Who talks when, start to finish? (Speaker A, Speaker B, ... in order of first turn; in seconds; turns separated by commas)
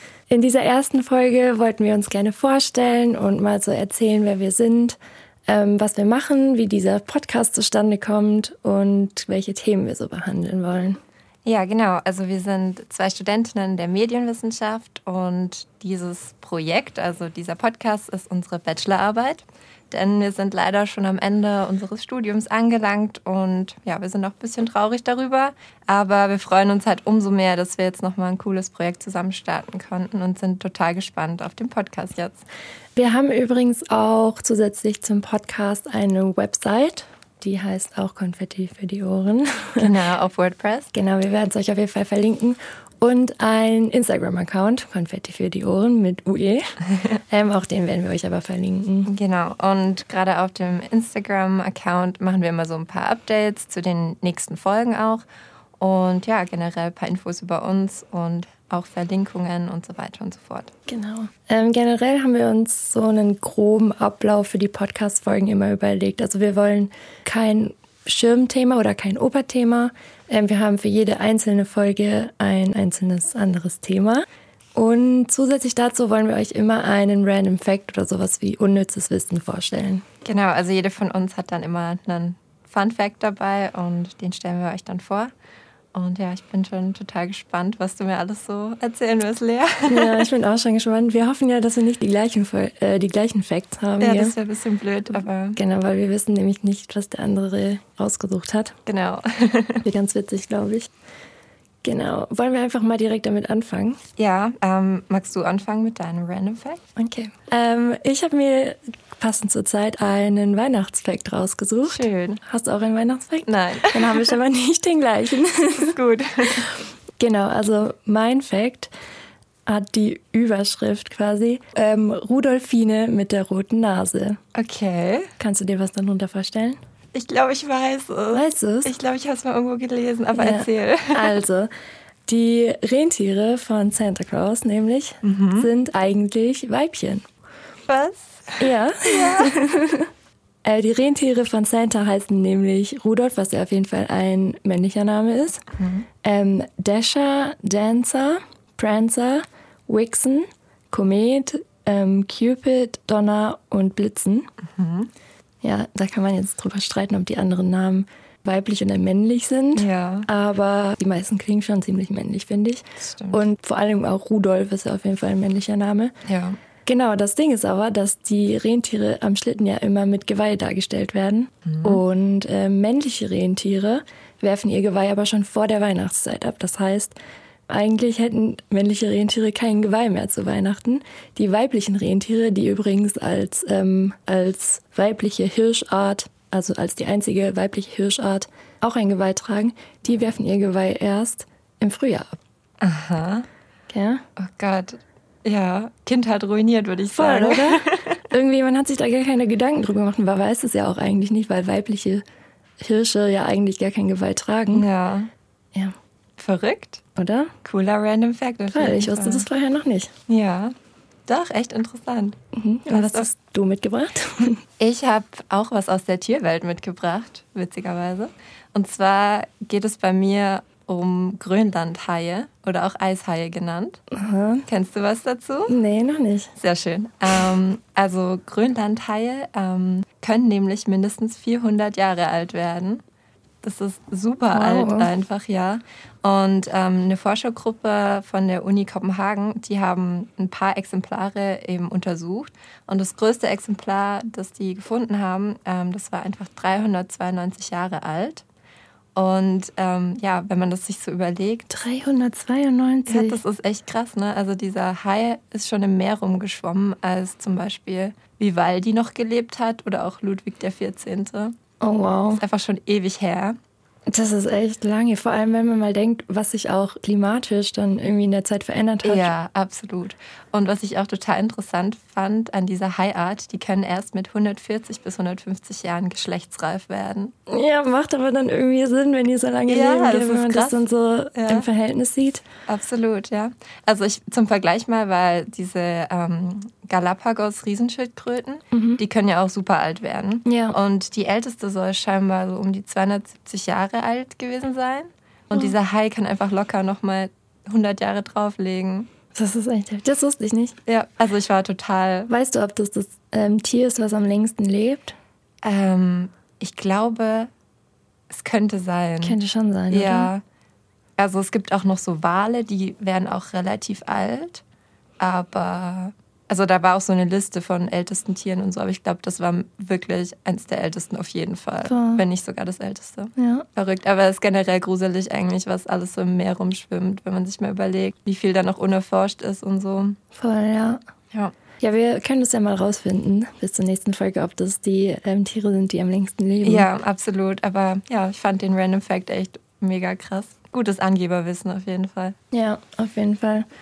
Speaker A: 0.3-11.0, Speaker B: 11.4-32.4, Speaker A: 33.0-39.9, Speaker B: 39.8-40.9, Speaker A: 40.9-49.1, Speaker B: 49.0-55.2, Speaker B: 55.8-60.7, Speaker A: 60.9-80.0, Speaker B: 80.2-85.3, Speaker B: 85.9-90.3, Speaker A: 89.9-94.3, Speaker B: 94.0-95.6, Speaker A: 95.5-98.7, Speaker B: 98.8-99.8, Speaker A: 99.8-100.9, Speaker A: 101.8-104.0, Speaker B: 104.2-106.8, Speaker A: 107.0-116.0, Speaker B: 111.8-112.4, Speaker B: 113.5-114.3, Speaker B: 115.8-116.7, Speaker A: 117.2-118.9, Speaker A: 119.7-124.4, Speaker B: 124.5-125.3, Speaker A: 125.4-126.8, Speaker B: 127.1-131.3, Speaker A: 128.3-128.9, Speaker A: 130.3-131.7, Speaker A: 132.3-137.2, Speaker B: 135.2-135.7, Speaker B: 137.9-139.6, Speaker A: 138.6-140.1, Speaker A: 140.6-145.6, Speaker B: 145.8-146.1, Speaker A: 146.2-154.5, Speaker B: 154.7-155.1, Speaker A: 155.6-166.1, Speaker B: 159.7-160.3, Speaker B: 163.0-163.4, Speaker B: 166.2-166.6, Speaker A: 166.8-177.1, Speaker B: 171.7-172.0, Speaker A: 177.7-192.3, Speaker B: 192.8-193.5, Speaker A: 193.9-194.2, Speaker B: 194.4-198.2, Speaker A: 197.1-202.2, Speaker A: 202.8-204.8, Speaker B: 204.7-205.3, Speaker B: 206.4-207.0, Speaker A: 207.2-207.5, Speaker B: 207.6-209.5, Speaker A: 208.7-210.1, Speaker B: 210.3-210.7, Speaker B: 211.3-212.4, Speaker A: 212.5-214.6, Speaker B: 212.9-213.3, Speaker B: 214.8-224.0, Speaker A: 224.1-224.7, Speaker B: 224.7-225.8, Speaker A: 225.7-226.5, Speaker B: 226.6-233.0, Speaker B: 233.6-248.4, Speaker A: 234.5-235.1, Speaker B: 249.1-251.7, Speaker A: 251.7-253.4, Speaker B: 253.1-261.5, Speaker A: 261.8-262.4, Speaker B: 262.3-263.6, Speaker A: 264.1-269.3, Speaker B: 269.0-277.3, Speaker A: 277.5-282.4, Speaker B: 279.7-281.7, Speaker B: 282.7-299.1, Speaker A: 288.7-289.0, Speaker A: 290.4-290.8, Speaker A: 299.3-300.7, Speaker B: 300.9-302.3, Speaker A: 302.3-305.1, Speaker B: 305.6-307.5, Speaker B: 308.3-309.4, Speaker A: 309.2-310.3, Speaker B: 309.9-310.4, Speaker B: 311.2-314.6, Speaker B: 315.2-330.2, Speaker A: 321.8-322.2, Speaker A: 323.4-323.6, Speaker A: 330.3-331.0, Speaker A: 331.8-336.9, Speaker B: 336.6-342.3, Speaker A: 342.5-343.7